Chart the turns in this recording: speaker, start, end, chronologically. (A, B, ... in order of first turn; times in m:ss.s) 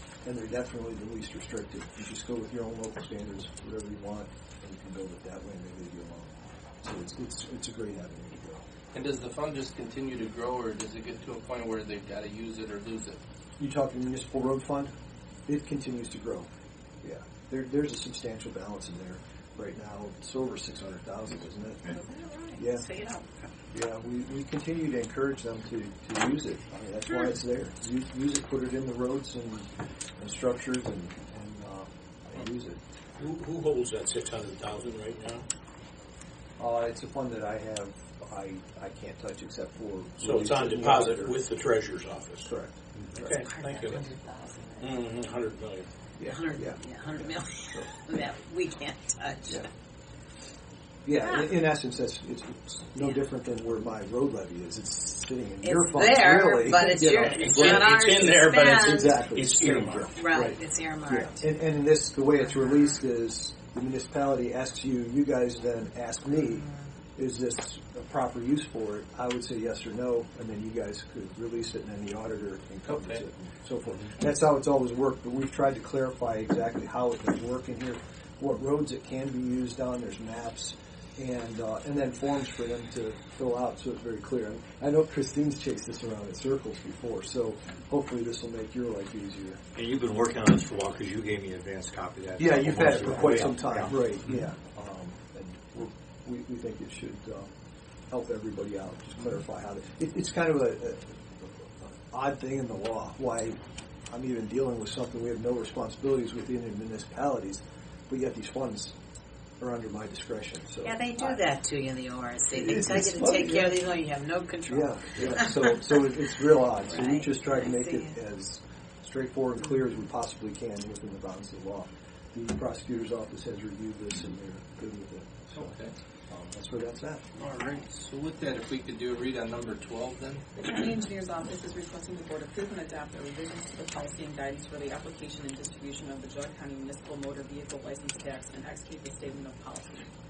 0:00.2-0:08.6 A
0:08.9-0:13.2 B
0:13.6-0:14.9 A
0:15.5-0:16.5 A
0:17.0-0:22.0 A
0:21.9-0:23.3 C
0:22.6-0:22.8 A
0:23.7-0:32.8 A
0:33.2-0:35.4 D
0:36.6-0:41.4 A
0:40.2-0:42.5 D
0:42.4-0:43.4 A
0:43.1-0:44.1 D
0:43.5-0:44.9 C
0:44.8-0:45.9 D
0:46.2-0:47.9 A
0:46.2-0:49.6 C
0:51.0-0:58.0 A
0:55.6-0:59.2 C
0:57.3-1:00.1 D
0:58.6-1:29.6 A
1:00.1-1:01.4 C
1:02.7-1:02.9 C
1:12.8-1:13.2 B
1:29.8-1:34.0 E
1:32.4-1:37.5 A
1:38.1-1:43.6 A
1:44.1-1:48.9 A
1:49.6-1:51.4 A
1:50.8-1:55.8 C
1:52.5-1:53.8 A
1:54.6-2:05.7 A
1:56.8-1:58.1 C
2:05.5-2:05.9 B
2:06.3-2:07.2 A
2:07.4-2:10.4 B
2:10.5-2:20.1 F